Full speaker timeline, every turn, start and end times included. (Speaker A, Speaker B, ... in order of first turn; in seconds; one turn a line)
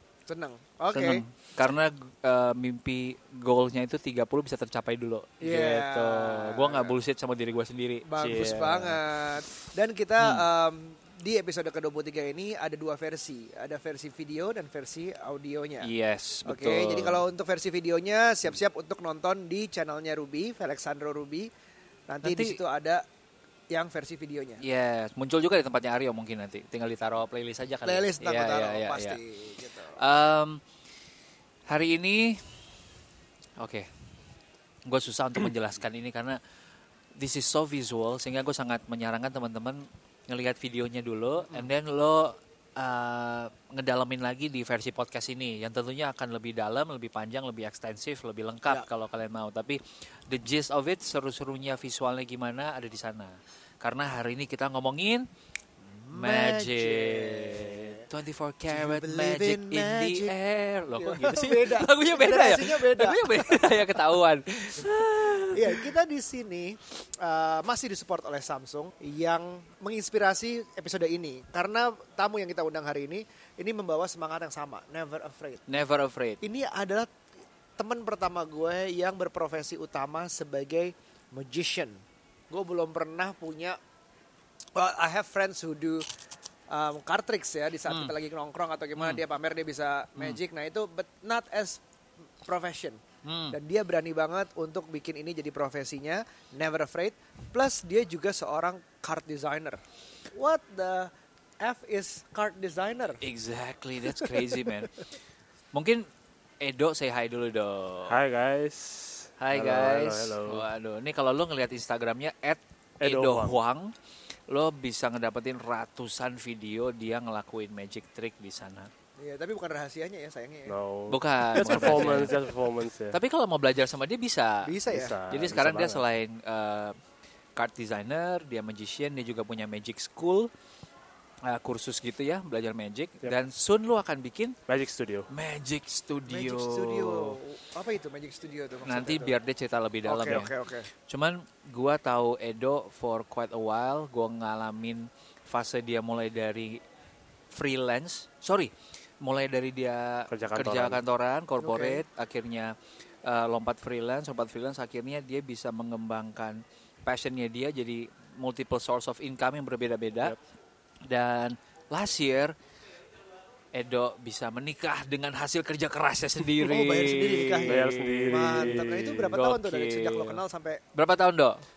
Speaker A: 0.3-1.2
Speaker B: 0.9-9.0
Speaker A: 5.4-7.0
Speaker A: 8.1-15.9
Speaker B: 10.2-10.4
Speaker B: 15.8-17.2
Speaker A: 16.4-21.5
Speaker A: 22.1-23.0
Speaker B: 22.2-22.6
Speaker A: 23.7-24.6
Speaker B: 24.6-29.2
Speaker A: 27.8-30.0
Speaker B: 29.9-30.6
Speaker B: 31.7-32.6
Speaker B: 33.6-33.9
Speaker B: 34.9-36.4
Speaker B: 37.2-55.2
Speaker A: 55.9-58.1
Speaker B: 56.1-65.9
Speaker A: 58.7-60.3
Speaker A: 60.9-64.0
Speaker A: 65.5-75.6
Speaker B: 75.7-76.4
Speaker A: 76.4-77.1
Speaker A: 77.8-83.8
Speaker A: 84.7-86.0
Speaker A: 86.7-91.8
Speaker B: 89.0-89.2
Speaker A: 92.4-99.8
Speaker B: 93.2-93.6
Speaker A: 100.3-103.2
Speaker B: 103.2-105.0
Speaker A: 104.1-104.8
Speaker B: 105.7-106.1
Speaker B: 106.6-108.1
Speaker C: 108.1-110.6
Speaker B: 109.4-113.9
Speaker C: 113.0-113.6
Speaker B: 114.5-118.9
Speaker A: 119.2-120.8
Speaker C: 120.7-123.2
Speaker B: 121.1-122.3
Speaker A: 121.6-122.4
Speaker B: 123.1-124.7
Speaker A: 124.6-125.2
Speaker C: 124.9-126.0
Speaker B: 125.3-126.9
Speaker B: 127.6-130.5
Speaker B: 131.4-134.5
Speaker C: 134.7-135.3
Speaker B: 135.3-137.4
Speaker A: 136.3-139.4
Speaker B: 138.8-140.5
Speaker A: 140.1-140.9
Speaker B: 141.1-146.8
Speaker B: 147.5-160.3
Speaker C: 150.3-151.0
Speaker A: 151.6-152.0
Speaker B: 161.1-162.5
Speaker B: 163.7-170.4
Speaker A: 166.6-170.8
Speaker C: 167.7-169.3
Speaker B: 170.9-171.6